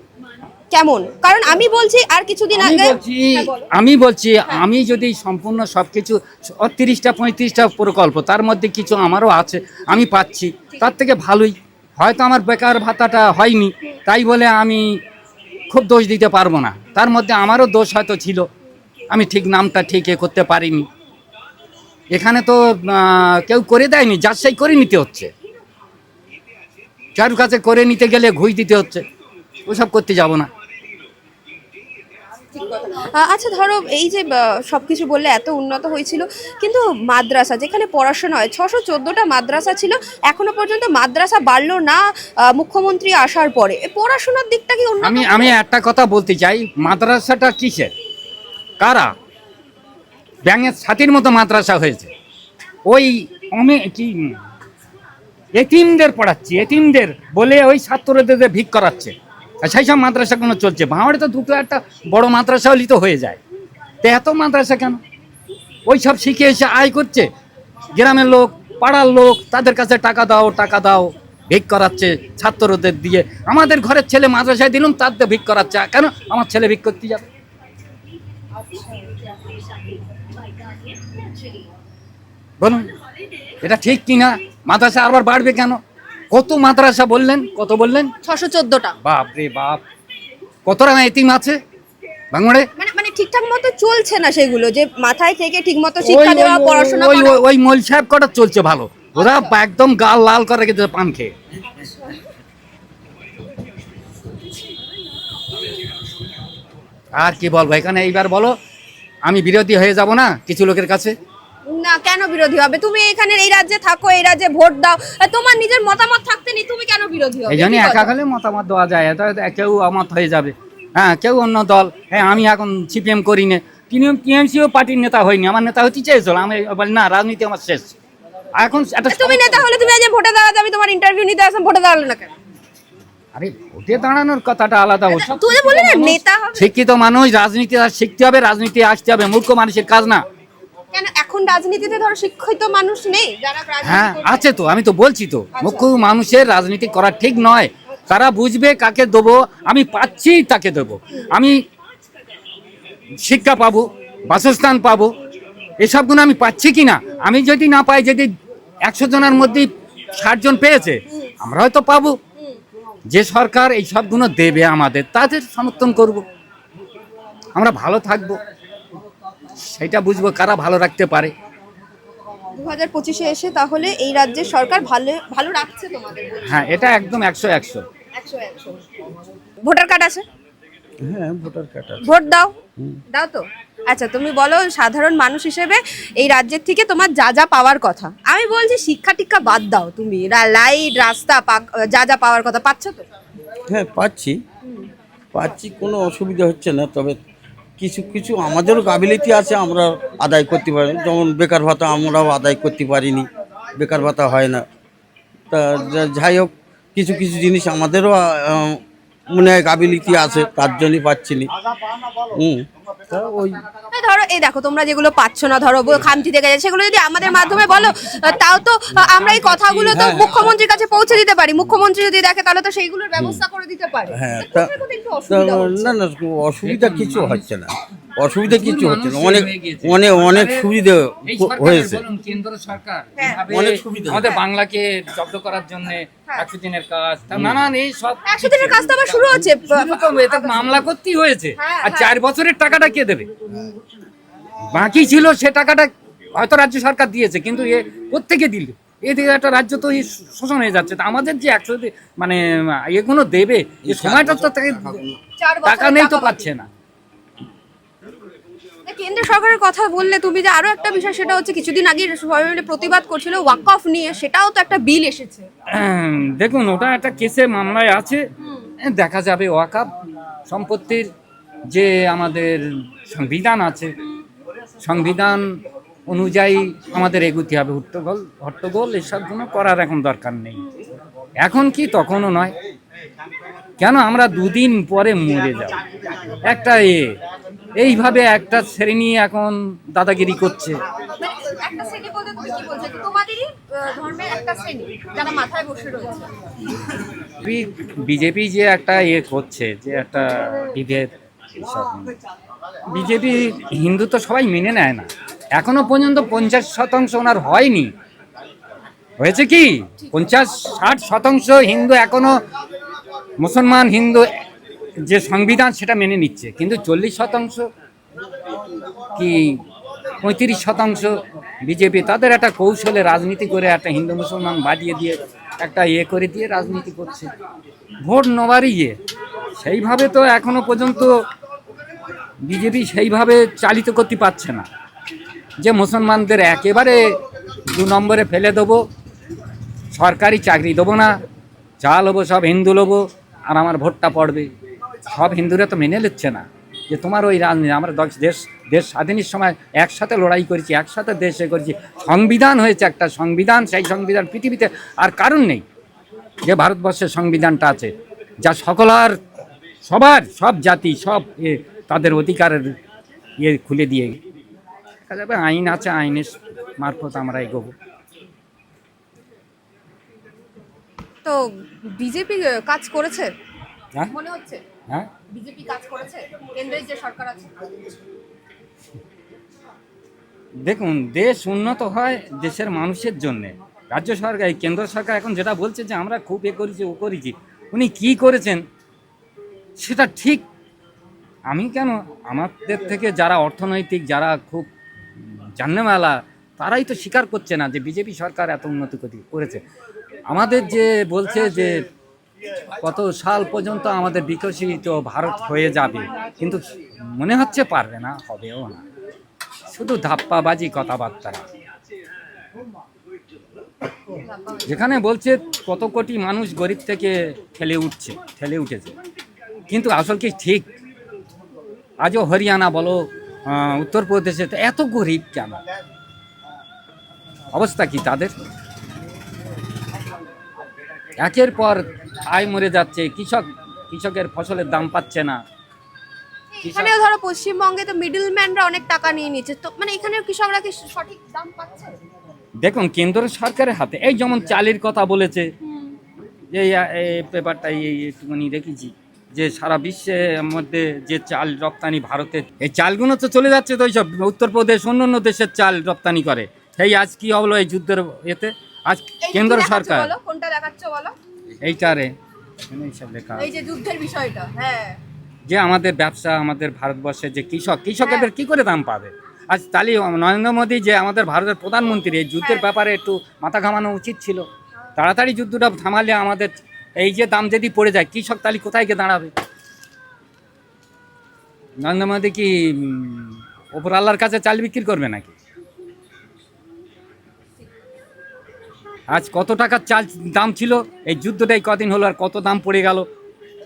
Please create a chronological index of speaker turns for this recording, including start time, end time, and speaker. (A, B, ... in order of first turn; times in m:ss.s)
0:00.7-0:03.7 A
0:02.6-0:15.0 B
0:15.7-0:18.5 B
0:19.1-0:20.9 B
0:22.1-0:25.3 B
0:27.2-0:29.0 B
0:29.7-0:30.5 B
0:32.5-0:42.0 A
0:42.5-0:45.6 A
0:45.0-0:47.9 B
0:48.8-0:49.1 B
0:50.4-0:52.1 B
0:52.9-0:54.4 B
0:55.6-1:03.4 B
1:04.0-1:05.0 B
1:05.9-1:07.3 B
1:07.9-1:17.2 B
1:18.6-1:19.3 A
1:22.6-1:22.9 B
1:23.6-1:25.8 B
1:26.3-1:28.1 B
1:28.2-1:29.0 A
1:29.0-1:29.8 B
1:30.7-1:31.6 B
1:32.3-1:32.7 B
1:32.8-1:37.4 A
1:36.0-1:41.3 B
1:39.2-1:39.6 A
1:41.8-1:42.2 A
1:47.2-1:48.5 B
1:49.2-1:51.1 B
1:51.7-1:58.1 A
1:57.5-2:08.0 B
2:08.6-2:09.7 B
2:09.1-2:12.3 A
2:13.4-2:20.2 B
2:15.1-2:16.7 A
2:20.9-2:24.5 A
2:23.8-2:31.6 B
2:25.6-2:25.9 A
2:33.2-2:35.1 B
2:35.8-2:38.3 B
2:38.9-2:42.2 B
2:43.1-2:46.2 B
2:47.6-2:48.4 B
2:49.7-2:51.3 B
2:52.6-2:56.6 A
2:56.4-2:57.8 B
2:58.2-2:58.8 A
2:59.6-3:00.2 A
3:01.0-3:02.0 C
3:02.0-3:02.5 A
3:03.1-3:13.0 A
3:13.7-3:14.4 C
3:15.3-3:17.2 C
3:17.8-3:24.6 C
3:25.5-3:31.5 C
3:32.3-3:33.6 C
3:33.9-3:46.0 A
3:37.6-3:38.4 B
3:39.0-3:40.5 B
3:39.9-3:40.5 C
3:43.2-3:43.4 C
3:44.1-3:52.0 C
3:46.6-3:47.5 B
3:48.5-3:50.7 B
3:51.3-4:03.3 B
3:53.5-3:54.3 C
3:57.3-3:57.6 C
3:58.3-4:00.8 A
4:01.6-4:02.1 A
4:04.7-4:15.0 B
4:13.8-4:15.2 C
4:15.4-4:16.5 A
4:15.6-4:16.7 B
4:18.9-4:25.5 A
4:25.7-4:28.2 B
4:28.4-4:28.7 A
4:28.8-4:29.9 B
4:30.5-4:31.1 B
4:31.7-4:33.9 B
4:34.8-4:35.5 B
4:36.1-4:40.6 B
4:41.4-4:42.5 B
4:43.8-4:45.8 B
4:46.5-4:47.1 B
4:47.8-4:50.8 B
4:51.2-4:56.3 A
4:57.4-5:02.1 B
5:02.9-5:07.9 B
5:09.2-5:12.4 B
5:13.4-5:14.3 B
5:15.1-5:17.6 B
5:19.2-5:19.6 B
5:20.2-5:21.1 B
5:21.6-5:27.3 B
5:28.0-5:29.0 B
5:29.6-5:31.1 B
5:32.4-5:34.7 B
5:35.6-5:37.2 B
5:37.7-5:38.8 B
5:39.9-5:41.2 B
5:41.8-5:44.5 B
5:45.1-5:55.6 B
5:56.5-5:57.9 B
5:58.4-5:59.2 B
5:59.8-6:02.7 B
6:03.4-6:04.2 B
6:05.1-6:07.7 B
6:11.2-6:13.3 A
6:14.1-6:14.6 A
6:15.3-6:17.7 A
6:20.7-6:28.6 B
6:29.8-6:30.4 B
6:31.5-6:34.7 B
6:35.4-6:39.6 B
6:40.3-6:41.9 B
6:42.8-6:48.8 B
6:49.7-6:51.4 B
6:54.2-6:54.7 A
6:54.7-6:58.9 B
6:59.7-7:00.7 B
7:02.0-7:05.6 B
7:07.5-7:08.3 B
7:11.2-7:15.4 B
7:16.5-7:22.0 A
7:16.6-7:17.0 B
7:22.6-7:25.5 B
7:25.6-7:26.0 A
7:26.5-7:40.1 B
7:39.2-7:41.2 A
7:41.6-7:42.1 B
7:42.7-7:43.5 B
7:43.4-7:45.0 A
7:45.5-7:54.4 B
7:48.0-7:48.3 A
7:52.4-7:52.7 A
7:55.0-7:59.3 B
8:01.8-8:05.3 B
8:09.1-8:13.1 B